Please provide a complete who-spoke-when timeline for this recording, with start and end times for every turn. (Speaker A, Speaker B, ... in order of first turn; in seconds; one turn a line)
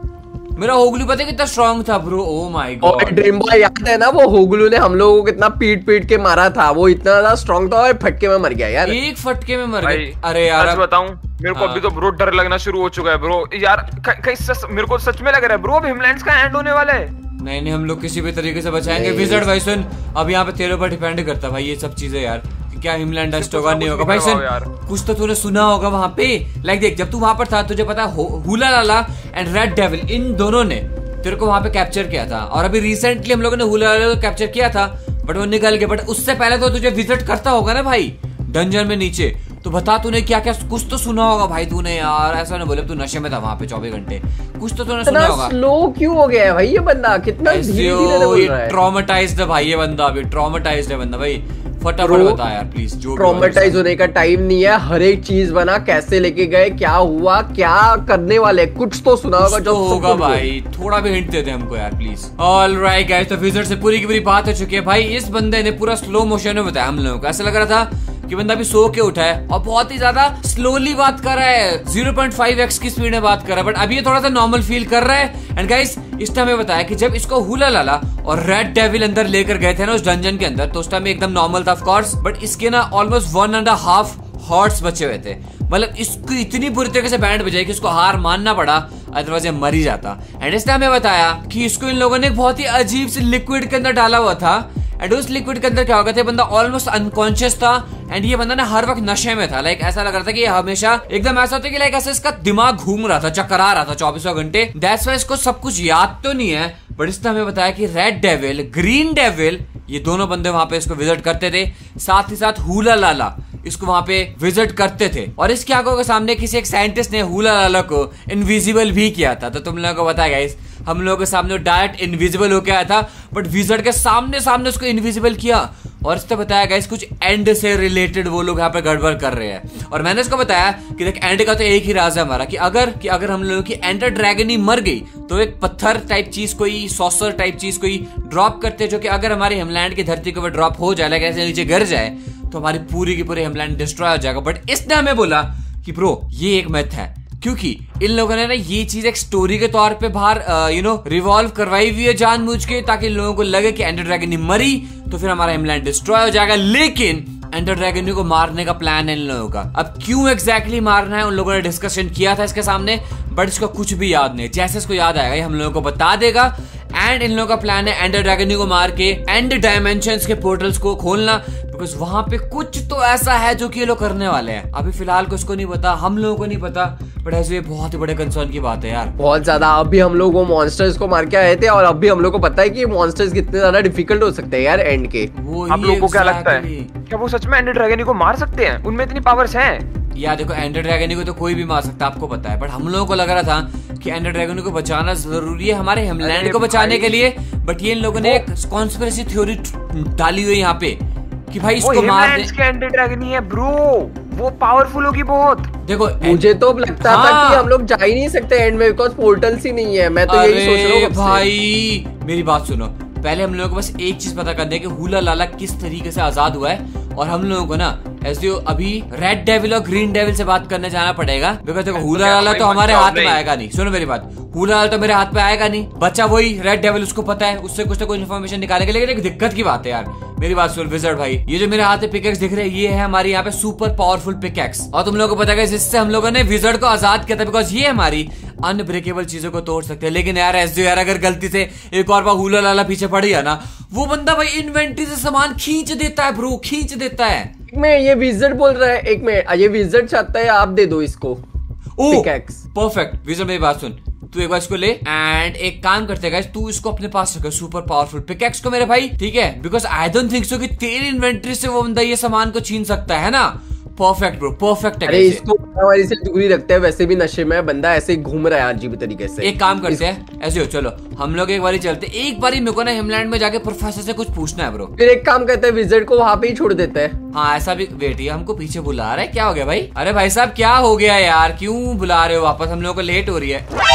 Speaker A: 0.6-3.2
Speaker B: 2.8-9.0
Speaker A: 8.8-10.8
Speaker C: 9.8-17.1
Speaker A: 11.5-11.8
Speaker A: 17.4-45.5
Speaker B: 18.8-19.5
Speaker C: 23.3-24.7
Speaker B: 45.0-48.8
Speaker A: 47.5-53.8
Speaker B: 52.0-52.4
Speaker B: 53.2-60.5
Speaker A: 59.4-179.1
Speaker B: 179.2-185.3
Speaker A: 185.3-186.9
Speaker C: 185.7-189.8
Speaker A: 190.1-201.0
Speaker C: 196.2-197.1
Speaker A: 201.5-202.5
Speaker C: 201.8-205.7
Speaker A: 205.8-207.7
Speaker B: 206.2-211.5
Speaker A: 210.3-247.5
Speaker C: 221.9-223.4
Speaker B: 247.7-251.4
Speaker A: 252.0-265.4
Speaker B: 252.1-252.6
Speaker B: 265.1-270.0
Speaker A: 269.4-274.9
Speaker B: 275.0-277.1
Speaker A: 277.3-283.7